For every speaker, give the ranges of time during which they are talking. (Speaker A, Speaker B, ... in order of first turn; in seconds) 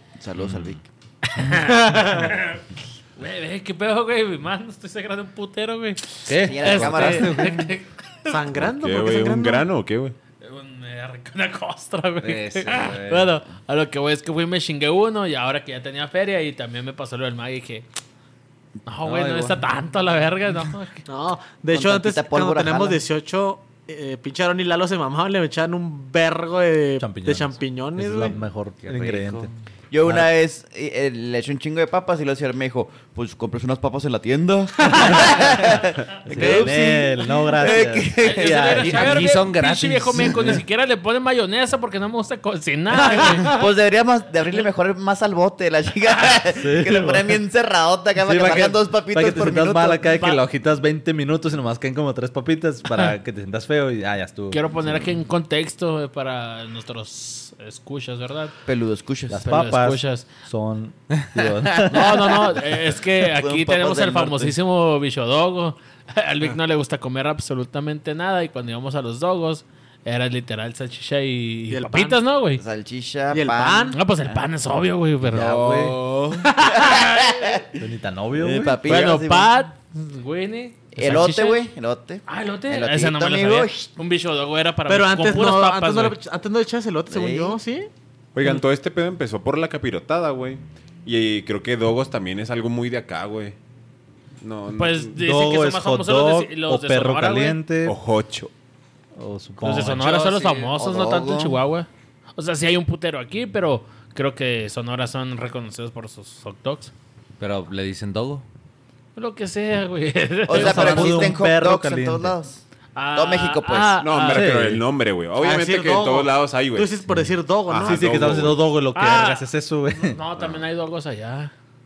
Speaker A: 0.2-0.8, 6.3-7.5, 21.7-23.0, 29.9-39.1, 43.3-50.0, 58.6-59.5, 63.0-64.5, 72.6-74.4, 75.8-77.8, 78.3-79.5, 80.9-83.9, 87.1-87.6, 100.8-101.6, 110.5-112.6, 113.1-114.0
Speaker B: 1.3-2.6, 3.2-8.4, 10.4-17.8, 18.9-21.1, 38.2-43.5, 50.1-50.4, 54.5-58.5, 59.4-60.3, 61.9-72.6, 73.9-75.6, 76.7-77.6, 78.9-81.6, 82.2-86.2, 94.7-97.6, 99.6-106.9, 109.2-111.4, 112.9-114.5, 118.9-121.5
Speaker C: 1.8-2.3, 8.3-9.6, 21.1-28.4, 34.9-35.3, 36.4-36.8, 43.1-43.5, 71.7-72.2, 73.3-74.0, 76.5-76.8, 84.9-87.9, 115.4-118.1
Speaker D: 6.3-7.7, 12.2-13.4, 19.0-19.6, 28.8-29.5, 38.5-40.5, 100.0-100.7, 107.4-108.5
Speaker E: 8.6-10.1, 75.6-75.9, 88.3-93.5, 94.4-95.2, 97.8-98.5, 114.0-117.0, 117.7-118.6, 120.4-120.6
Speaker F: 27.0-29.5, 30.0-30.3, 36.2-39.2, 40.3-40.5, 46.5-47.4, 48.2-55.1, 59.3-62.5, 75.2-76.0, 77.8-79.0, 95.2-98.0, 99.1-100.1, 110.5-112.4, 114.3-114.8, 117.8-120.2